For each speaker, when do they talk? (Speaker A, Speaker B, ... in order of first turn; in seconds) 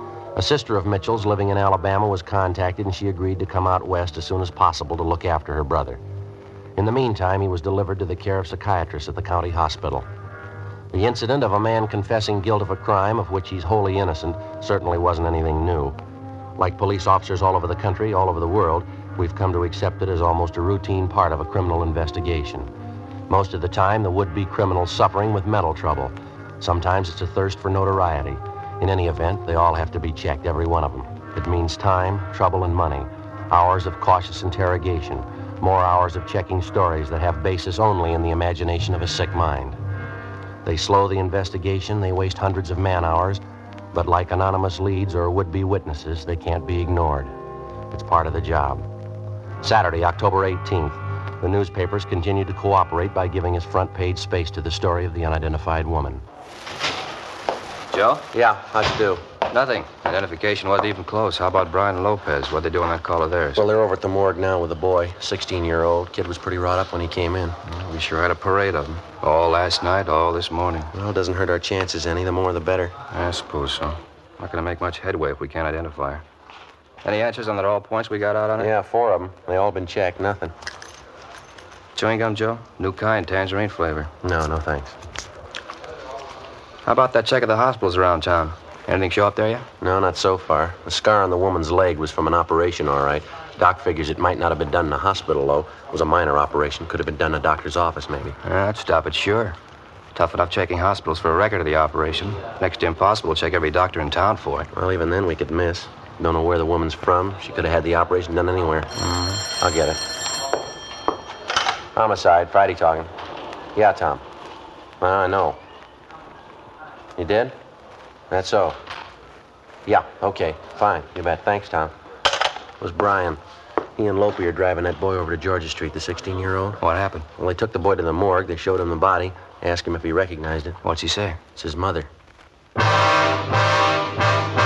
Speaker A: 0.3-6.0, 6.8-10.1, 10.9-16.0, 16.6-22.7, 23.3-39.8, 40.6-43.4, 43.9-47.3, 47.9-48.9, 49.6-56.2, 58.3-59.2, 63.6-67.6, 70.9-73.0, 78.6-80.5, 84.2-85.0, 89.8-98.4, 104.7-108.9, 109.5-110.0, 112.0-113.1, 113.8-114.2, 115.0-115.6, 117.2-117.5, 118.3-118.8, 119.9-121.9, 122.8-123.4, 124.0-126.8, 127.4-130.8, 131.6-132.1
Speaker B: 57.9-58.2, 59.5-63.6, 67.7-70.9, 73.1-76.2, 77.0-78.7, 82.0-84.1, 86.8-89.7, 98.4-99.6, 100.1-104.7, 109.0-109.4, 126.8-127.3, 130.8-131.4